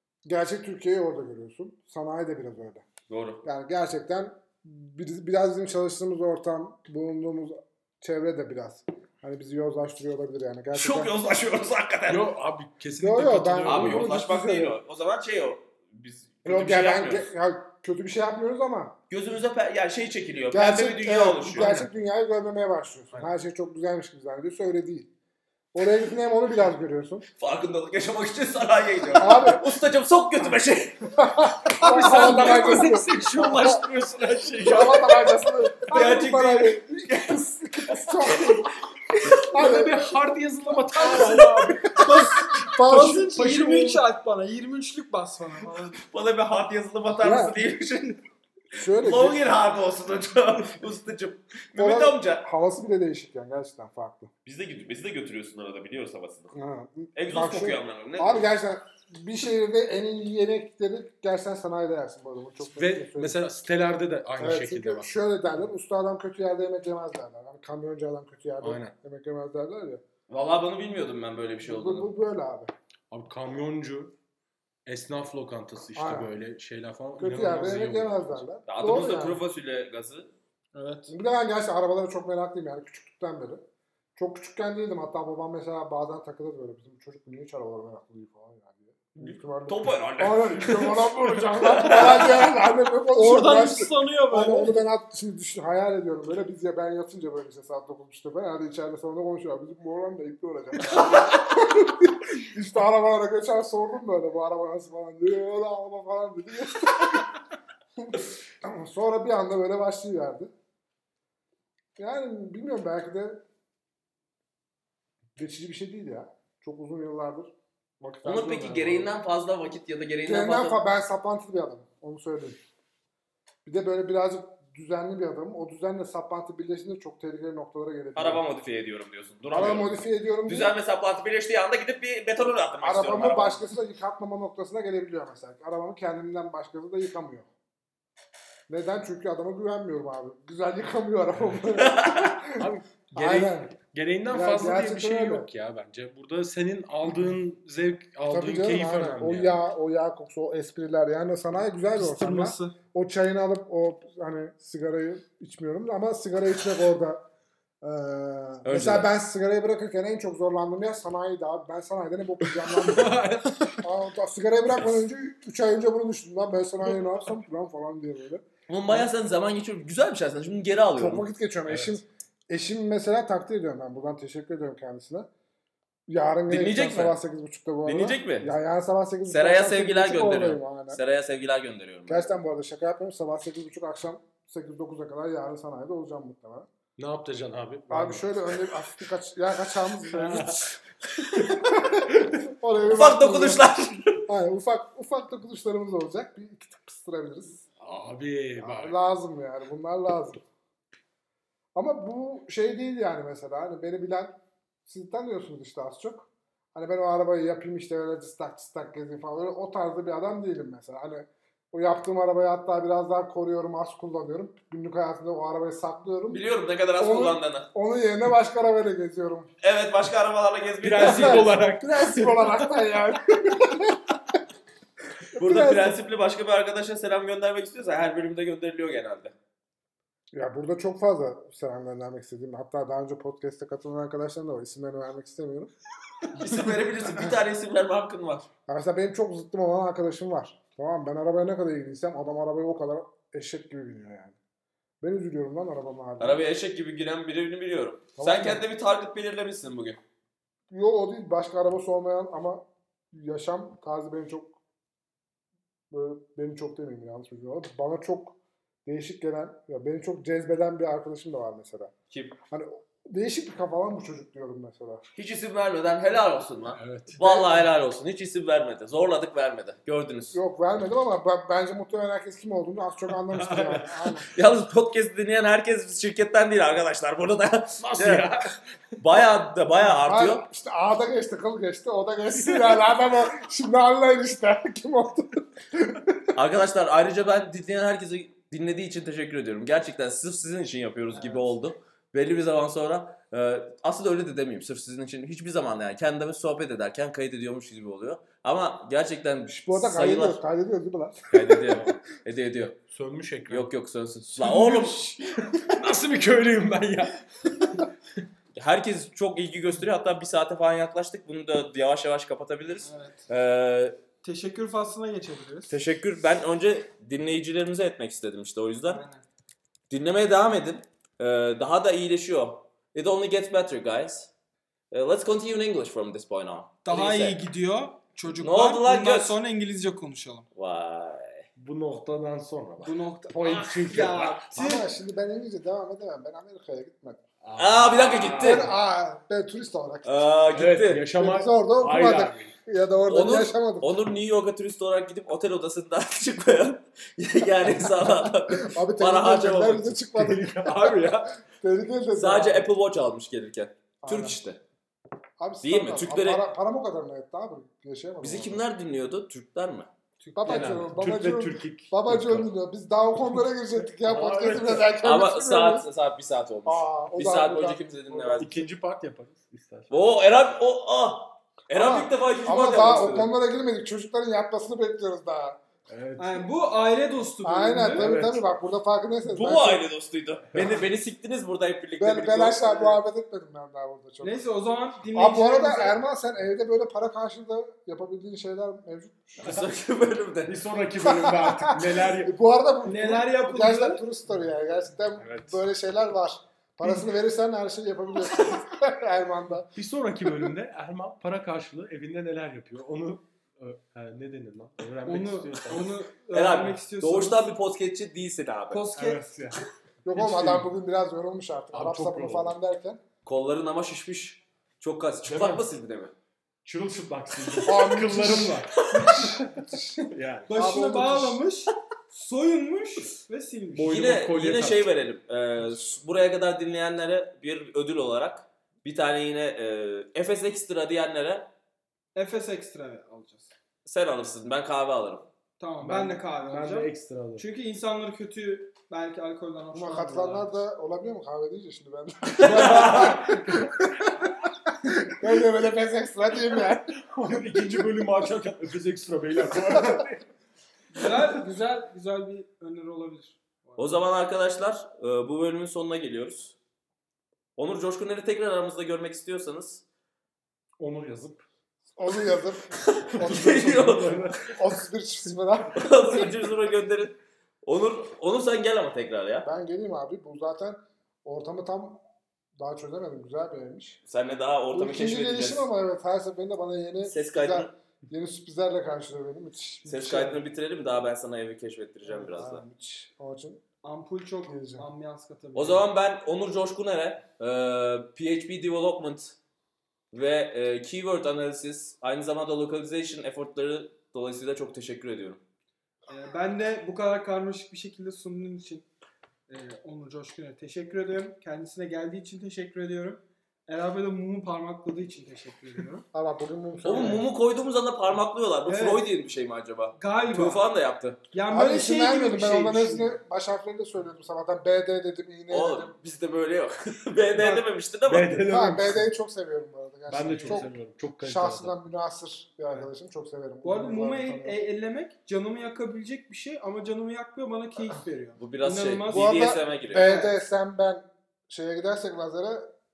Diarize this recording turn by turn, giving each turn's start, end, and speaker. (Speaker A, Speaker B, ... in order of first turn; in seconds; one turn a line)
Speaker A: 0.3-2.9
Speaker B: 3.1-3.5
Speaker A: 3.4-11.1
Speaker B: 10.7-12.3
Speaker C: 12.1-14.2
Speaker A: 13.0-14.8
Speaker B: 13.7-17.3
Speaker A: 16.4-18.9
Speaker B: 19.1-21.9
Speaker A: 20.5-25.1
Speaker C: 21.5-21.9
Speaker A: 25.7-27.3
Speaker B: 27.4-31.1
Speaker A: 29.1-29.8
Speaker A: 31.1-33.8
Speaker C: 31.7-35.4
Speaker B: 32.2-32.6
Speaker A: 34.6-38.7
Speaker B: 35.9-39.4
Speaker C: 39.3-44.0
Speaker A: 39.5-39.9
Speaker B: 41.1-41.7
Speaker D: 42.0-46.0
Speaker A: 42.6-43.2
Speaker B: 46.1-48.2
Speaker A: 47.2-47.6
Speaker A: 48.7-49.6
Speaker B: 48.9-52.5
Speaker A: 51.8-54.3
Speaker B: 54.5-56.5
Speaker A: 56.5-63.4
Speaker B: 57.1-58.5
Speaker C: 62.8-65.1
Speaker A: 64.4-70.0
Speaker C: 68.6-68.9
Speaker B: 70.3-72.1
Speaker A: 71.7-72.7
Speaker C: 73.1-74.1
Speaker C: 74.9-78.4
Speaker A: 76.0-76.3
Speaker A: 77.2-79.4
Speaker B: 78.7-80.3
Speaker D: 80.7-81.1
Speaker A: 81.1-83.6
Speaker A: 84.2-107.3
Speaker B: 89.2-92.5
Speaker D: 93.1-94.8
Speaker B: 100.9-101.4
Speaker A: 108.0-110.5
Speaker A: 112.0-113.4
Speaker A: 115.4-119.1
Speaker B: 118.2-120.8
Speaker A: 120.2-122.6
Speaker A: 123.7-128.4
Speaker B: 128.2-133.6
Speaker A: 129.5-130.8
Speaker A: 132.8-137.5
Speaker A: 138.7-143.8
Speaker B: 141.7-142.4
Speaker C: 142.6-149.6
Speaker A: 144.3-145.5
Speaker A: 147.1-147.3
Speaker A: 148.3-157.2
Speaker D: 151.9-152.8
Speaker A: 157.8-163.3
Speaker B: 158.7-159.1
Speaker C: 162.4-163.9
Speaker A: 163.8-169.1
Speaker B: 168.7-171.3
Speaker A: 171.0-175.3
Speaker C: 171.7-172.0
Speaker A: 176.1-181.0
Speaker B: 176.5-177.2
Speaker B: 177.8-178.5
Speaker B: 179.3-182.3
Speaker A: 182.1-186.7
Speaker C: 187.0-188.3
Speaker A: 187.9-190.6
Speaker C: 190.1-190.7
Speaker C: 191.3-192.4
Speaker A: 191.4-197.7
Speaker B: 192.9-194.2
Speaker C: 197.8-198.9
Speaker A: 198.6-200.4
Speaker A: 201.8-216.4
Speaker B: 216.3-217.7
Speaker A: 217.0-219.5
Speaker B: 219.6-221.6
Speaker C: 220.8-222.6
Speaker A: 221.0-224.0
Speaker A: 225.4-226.0
Speaker B: 225.4-229.3
Speaker A: 230.3-235.7
Speaker B: 236.3-238.5
Speaker A: 238.7-244.4
Speaker A: 245.0-246.4
Speaker B: 246.2-250.0
Speaker A: 248.2-248.6
Speaker A: 250.7-254.6
Speaker A: 255.9-261.9
Speaker B: 262.1-262.4
Speaker A: 262.5-265.0
Speaker B: 265.1-270.4
Speaker C: 266.7-267.2
Speaker A: 267.2-267.6
Speaker A: 270.3-274.3
Speaker C: 273.3-274.2
Speaker B: 274.3-278.3
Speaker C: 277.8-278.6
Speaker B: 279.0-280.4
Speaker A: 279.8-286.3
Speaker C: 282.3-282.8
Speaker B: 286.3-300.4
Speaker D: 291.1-291.5
Speaker A: 299.5-301.5
Speaker B: 301.3-302.8
Speaker C: 301.6-302.0
Speaker C: 302.9-303.7
Speaker B: 303.5-305.2
Speaker C: 304.4-307.9
Speaker B: 308.6-314.0
Speaker D: 312.8-313.3
Speaker D: 314.2-315.8
Speaker B: 315.7-319.0
Speaker D: 318.9-319.2
Speaker B: 319.9-324.3
Speaker B: 324.9-327.4
Speaker D: 326.9-330.5
Speaker B: 328.4-329.4
Speaker B: 330.6-331.5
Speaker C: 331.6-334.5
Speaker D: 332.8-334.9
Speaker A: 334.5-337.2
Speaker C: 337.4-338.7
Speaker B: 337.6-338.7
Speaker A: 338.4-340.3
Speaker B: 340.1-341.1
Speaker C: 340.5-342.5
Speaker A: 341.2-344.0
Speaker B: 343.1-350.0
Speaker A: 347.6-352.7
Speaker C: 350.1-351.4
Speaker B: 352.2-354.6
Speaker A: 354.0-354.4
Speaker A: 355.4-358.6
Speaker B: 355.6-356.4
Speaker B: 358.2-359.9
Speaker D: 360.2-360.8
Speaker A: 360.4-365.9
Speaker C: 360.4-362.5
Speaker C: 363.2-364.9
Speaker B: 365.0-368.6
Speaker A: 366.7-368.4
Speaker C: 368.2-369.9
Speaker B: 369.9-373.3
Speaker A: 371.7-375.6
Speaker C: 375.9-376.5
Speaker D: 376.2-378.1
Speaker A: 377.4-379.9
Speaker C: 377.9-378.4
Speaker B: 379.3-383.0
Speaker C: 380.6-380.8
Speaker A: 382.0-384.4
Speaker D: 384.2-386.0
Speaker A: 385.1-389.5
Speaker B: 389.4-390.6
Speaker C: 390.5-392.3
Speaker A: 391.0-399.7
Speaker D: 392.8-394.0
Speaker C: 395.2-395.6
Speaker C: 399.8-406.0
Speaker D: 405.1-407.5
Speaker B: 406.3-408.8
Speaker D: 408.7-409.3
Speaker C: 409.0-410.7
Speaker A: 410.1-413.0
Speaker C: 411.7-412.5
Speaker B: 413.2-416.1
Speaker C: 415.3-415.6
Speaker C: 416.6-420.5
Speaker A: 417.6-421.4
Speaker B: 418.8-419.4
Speaker D: 420.5-424.0
Speaker C: 423.7-424.9
Speaker B: 423.9-431.5
Speaker D: 432.1-433.5
Speaker B: 433.9-435.3
Speaker D: 435.6-440.5
Speaker C: 435.8-437.4
Speaker A: 439.7-444.3
Speaker C: 442.4-443.7
Speaker B: 442.5-443.1
Speaker A: 444.8-446.9
Speaker C: 447.1-450.3
Speaker D: 450.9-454.0
Speaker B: 453.8-456.6
Speaker B: 457.6-459.8
Speaker C: 460.8-461.4
Speaker A: 462.0-463.8
Speaker B: 462.8-464.2
Speaker C: 463.2-464.6
Speaker A: 464.5-466.4
Speaker B: 465.8-469.5
Speaker A: 469.4-472.0
Speaker A: 472.6-474.0
Speaker B: 474.1-475.7
Speaker A: 474.7-480.4
Speaker B: 477.0-477.7
Speaker B: 479.9-482.6
Speaker A: 482.1-483.6
Speaker D: 483.8-485.9
Speaker A: 484.4-484.9
Speaker B: 485.6-489.4
Speaker B: 490.1-495.4
Speaker D: 496.1-498.9
Speaker D: 499.5-506.1
Speaker A: 506.1-507.2
Speaker B: 506.8-511.2
Speaker D: 508.7-509.1
Speaker D: 510.0-510.6
Speaker D: 511.3-513.2
Speaker A: 511.5-515.9
Speaker B: 515.5-518.4
Speaker D: 517.4-517.7
Speaker C: 518.1-519.1
Speaker A: 518.4-524.6
Speaker C: 520.1-521.7
Speaker D: 523.6-529.4
Speaker B: 528.4-530.1
Speaker A: 529.1-532.7
Speaker D: 529.9-530.3